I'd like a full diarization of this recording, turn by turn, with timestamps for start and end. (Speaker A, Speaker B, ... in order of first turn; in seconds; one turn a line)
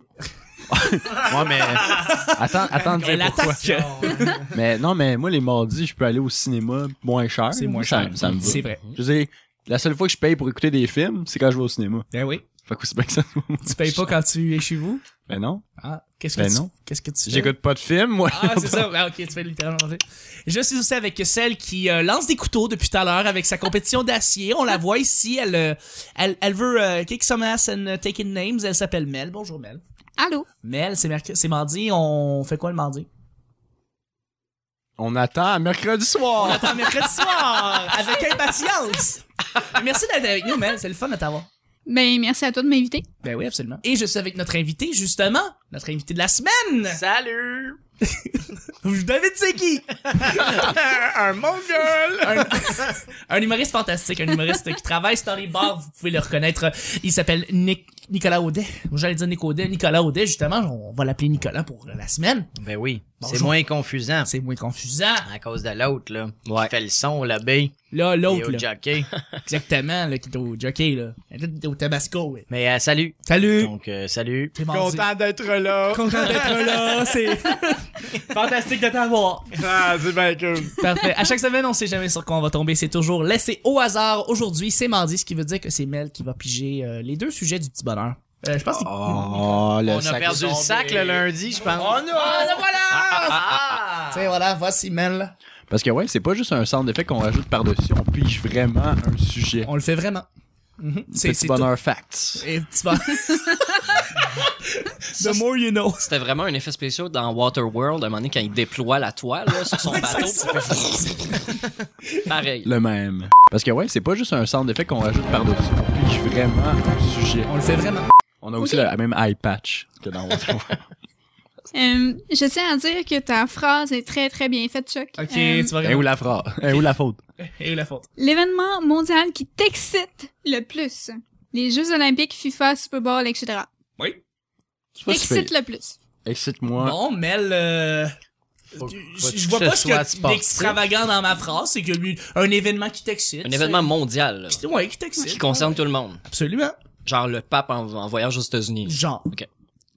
Speaker A: 0.7-3.6
Speaker B: 1.7-4.4
Speaker C: 2.9-4.5
Speaker A: 4.4-12.1
Speaker B: 7.5-8.8
Speaker D: 8.3-8.9
Speaker B: 12.1-12.4
Speaker A: 12.6-14.0
Speaker B: 13.6-15.0
Speaker A: 15.3-15.6
Speaker B: 15.8-17.5
Speaker A: 16.4-16.7
Speaker A: 17.2-18.9
Speaker B: 18.3-29.8
Speaker E: 30.2-30.5
Speaker B: 30.6-33.1
Speaker A: 35.0-37.0
Speaker B: 36.4-41.5
Speaker E: 41.9-43.0
Speaker B: 43.2-47.0
Speaker C: 46.9-47.8
Speaker B: 48.0-50.7
Speaker C: 50.1-52.5
Speaker B: 52.2-62.5
Speaker C: 62.6-64.3
Speaker B: 63.2-63.6
Speaker B: 64.3-65.3
Speaker C: 65.2-69.1
Speaker D: 66.5-66.7
Speaker B: 67.9-68.7
Speaker B: 69.4-72.5
Speaker C: 72.5-77.0
Speaker B: 73.2-73.7
Speaker B: 74.5-75.1
Speaker B: 75.9-79.6
Speaker C: 79.5-80.8
Speaker B: 80.8-89.4
Speaker A: 88.8-92.6
Speaker C: 89.1-92.2
Speaker B: 91.8-93.4
Speaker C: 93.3-94.1
Speaker B: 94.1-95.3
Speaker A: 95.7-99.7
Speaker B: 99.6-100.3
Speaker B: 100.8-101.7
Speaker A: 101.1-102.5
Speaker B: 102.3-106.1
Speaker E: 103.3-103.7
Speaker D: 105.2-105.4
Speaker D: 106.0-111.4
Speaker B: 109.8-111.5
Speaker D: 112.2-112.7
Speaker A: 112.6-117.5
Speaker B: 117.5-118.1
Speaker A: 118.4-120.8
Speaker E: 118.6-118.9
Speaker E: 121.7-125.8
Speaker B: 125.2-126.1
Speaker A: 125.8-127.2
Speaker B: 127.4-128.1
Speaker E: 128.2-133.7
Speaker A: 135.0-135.5
Speaker E: 135.1-135.9
Speaker A: 136.2-137.0
Speaker B: 136.8-138.1
Speaker B: 138.8-143.9
Speaker C: 138.8-140.8
Speaker D: 143.4-144.6
Speaker B: 144.5-146.8
Speaker D: 145.2-146.2
Speaker D: 147.0-149.5
Speaker B: 148.8-149.3